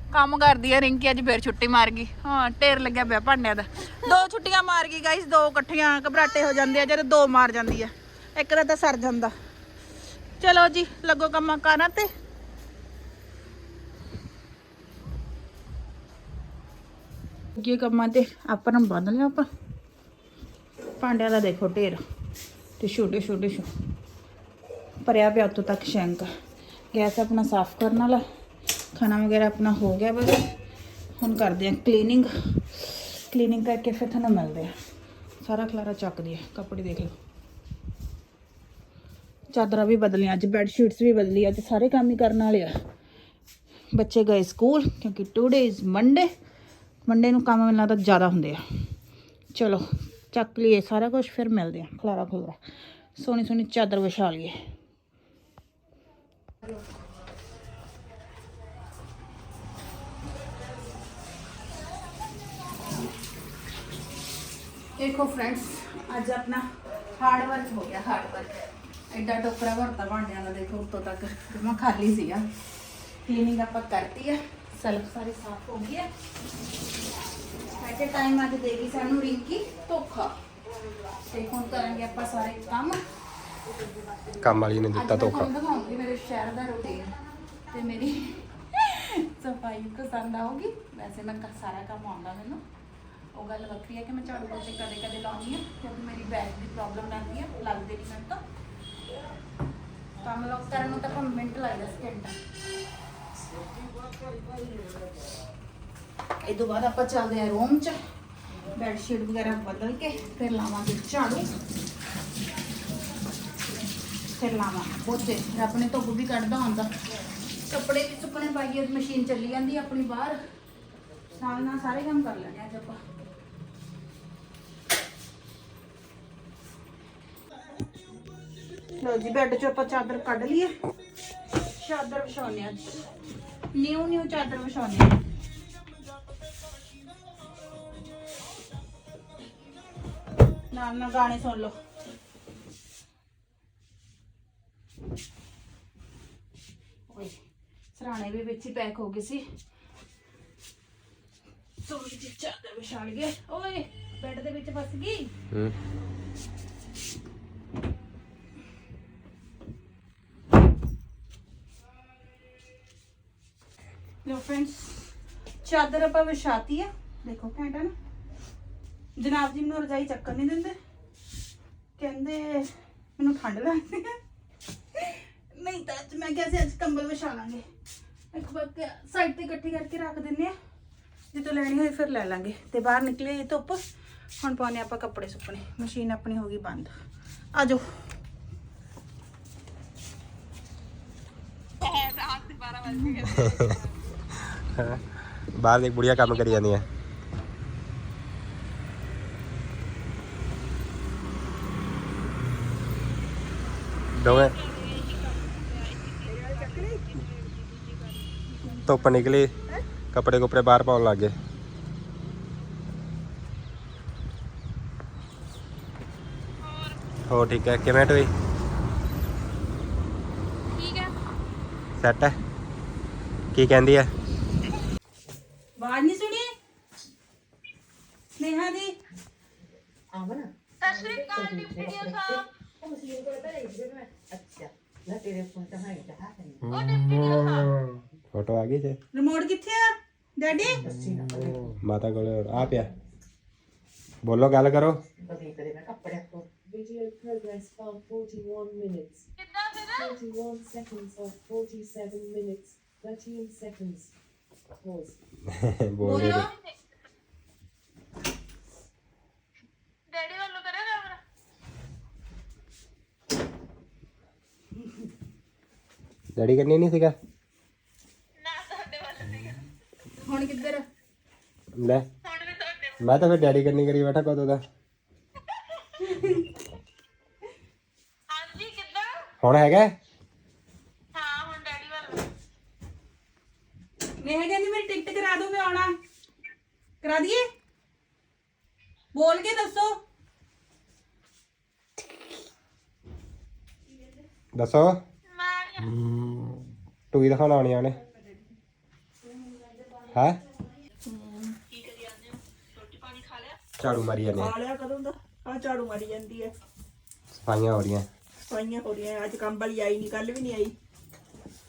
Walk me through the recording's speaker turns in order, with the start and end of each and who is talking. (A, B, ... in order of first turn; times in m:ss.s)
0:00.1-0:09.3 A
0:10.4-0:12.1 A
0:17.6-0:19.4 A
0:21.0-0:22.0 A
0:22.8-0:23.7 A
0:25.0-0:26.3 A
0:26.9-0:28.2 A
0:28.9-0:30.4 A
0:31.2-0:34.7 A
0:35.4-0:37.1 A
0:39.5-0:42.7 A
0:43.9-0:46.3 A
0:47.0-0:48.6 A
0:49.5-0:52.6 A
0:53.2-0:54.6 A
1:05.0-1:06.6 A
1:07.2-1:12.4 A
1:13.2-1:16.1 A
1:17.8-1:20.3 A
1:21.3-1:23.0 A
1:24.4-1:25.5 B
1:24.9-1:27.1 A
1:27.7-1:32.6 A
1:33.3-1:38.4 A
1:40.2-1:42.3 A
1:46.4-1:47.9 A
1:48.7-1:51.5 A
1:54.4-1:56.9 A
1:57.6-2:00.4 A
2:01.4-2:03.0 A
2:09.0-2:10.7 A
2:11.8-2:12.8 A
2:13.7-2:15.2 A
2:20.7-2:21.7 A
2:27.1-2:27.3 A
2:27.9-2:29.4 A
2:31.8-2:35.3 A
2:44.2-2:45.0 A
2:45.6-2:47.9 A
2:49.2-2:50.7 A
2:52.0-2:54.2 A
2:55.0-2:57.6 A
2:58.3-3:00.5 A
3:01.3-3:03.8 A
3:04.4-3:06.9 A
3:07.5-3:07.8 A
3:11.8-3:12.9 A
3:14.4-3:15.0 B
3:15.6-3:16.9 B
3:24.1-3:24.6 B
3:26.2-3:27.0 C
3:28.8-3:29.5 B
3:30.1-3:31.3 B
3:37.3-3:38.3 B
3:40.7-3:41.1 A
3:42.0-3:42.3 B
3:43.5-3:44.1 B
3:45.8-3:46.5 A
3:48.4-3:49.0 A
3:50.1-3:56.8 D
3:50.9-3:52.4 A
3:56.8-3:59.0 B
3:59.1-4:00.8 A
4:00.8-4:01.7 D
4:01.8-4:02.9 B
4:04.2-4:05.0 B
4:05.2-4:09.2 D
4:09.6-4:09.9 A
4:09.9-4:14.1 D
4:14.8-4:15.2 D
4:15.5-4:16.5 B
4:16.0-4:16.6 A
4:20.1-4:21.1 A
4:26.3-4:27.1 B
4:30.2-4:30.8 A
4:31.8-4:32.0 B
4:33.0-4:34.6 B
4:36.0-4:36.4 A
4:38.5-4:38.9 A
4:39.4-4:39.9 B
4:41.3-4:41.9 A
4:44.2-4:45.9 A
4:47.0-4:47.4 A
4:49.1-4:49.9 A
4:54.5-4:55.0 B
4:55.8-4:56.6 B
4:57.1-4:58.0 B
5:00.1-5:00.4 B
5:03.8-5:04.5 B
5:04.4-5:06.5 C
5:07.3-5:08.1 B
5:08.5-5:10.7 C